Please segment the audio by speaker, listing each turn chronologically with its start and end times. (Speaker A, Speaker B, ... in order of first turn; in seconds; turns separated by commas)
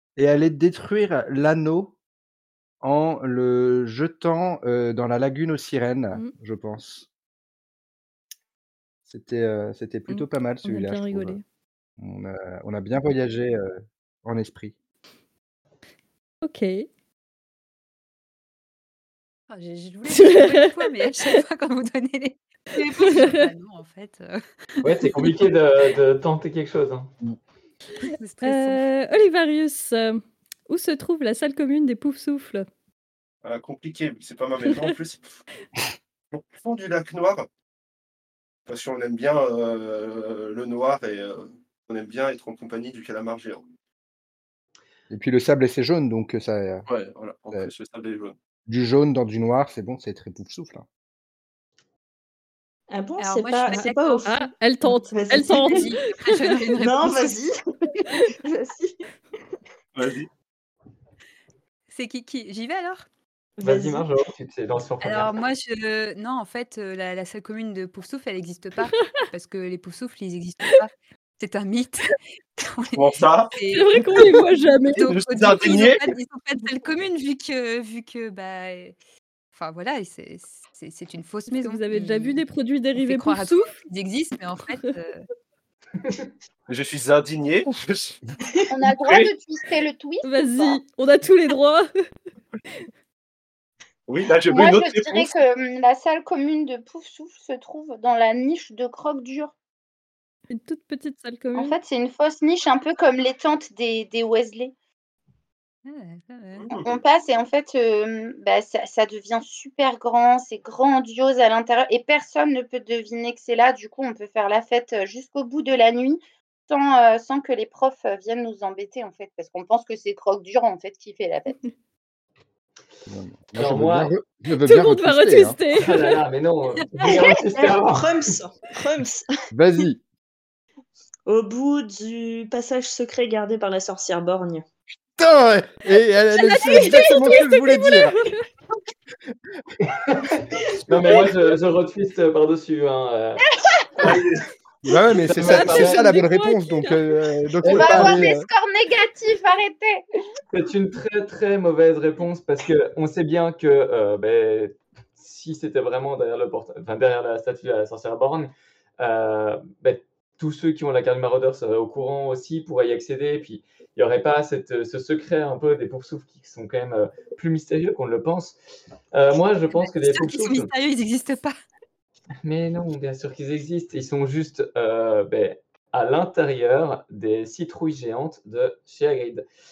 Speaker A: 0.2-1.9, Speaker A: 2.8-7.1, Speaker A: 9.1-11.4, Speaker B: 10.1-11.4, Speaker A: 12.0-14.8, Speaker B: 16.4-16.9, Speaker C: 19.5-24.4, Speaker B: 20.1-20.7, Speaker B: 22.8-23.4, Speaker D: 24.8-27.1, Speaker C: 28.0-28.9, Speaker B: 28.4-32.7, Speaker E: 33.4-35.3, Speaker E: 36.3-37.5, Speaker E: 38.7-43.6, Speaker A: 45.1-46.9, Speaker E: 46.9-48.4, Speaker A: 48.7-50.9, Speaker F: 52.9-54.5, Speaker C: 53.2-54.3, Speaker B: 54.2-56.6, Speaker F: 55.1-55.9, Speaker C: 55.4-57.4, Speaker F: 56.8-59.0, Speaker E: 60.0-60.3, Speaker C: 61.9-63.1, Speaker F: 63.6-64.1, Speaker D: 63.6-65.4, Speaker C: 65.0-79.0, Speaker E: 72.9-73.5, Speaker B: 73.7-75.1, Speaker E: 75.1-76.1, Speaker C: 79.5-82.4, Speaker B: 81.5-83.7, Speaker C: 83.0-85.3, Speaker E: 86.7-88.2, Speaker G: 88.7-90.8, Speaker E: 89.0-89.3, Speaker B: 90.2-91.9, Speaker E: 94.1-95.4, Speaker G: 94.5-99.5, Speaker B: 100.5-101.8, Speaker G: 101.5-104.7, Speaker C: 105.8-106.7, Speaker E: 106.6-107.0, Speaker G: 106.8-121.6, Speaker A: 123.1-125.6, Speaker D: 123.6-124.1, Speaker B: 124.5-126.2, Speaker D: 125.7-128.4, Speaker F: 127.0-129.3, Speaker A: 129.5-130.0, Speaker F: 131.3-134.6, Speaker A: 135.2-138.2, Speaker B: 136.3-138.4, Speaker D: 140.1-143.6, Speaker G: 143.5-144.1, Speaker E: 144.0-144.4, Speaker A: 144.8-148.5, Speaker D: 145.3-146.1, Speaker B: 145.4-147.0, Speaker D: 147.6-148.3, Speaker G: 147.6-150.1, Speaker D: 150.5-168.6, Speaker D: 169.1-170.7, Speaker C: 169.7-171.6, Speaker D: 172.4-179.4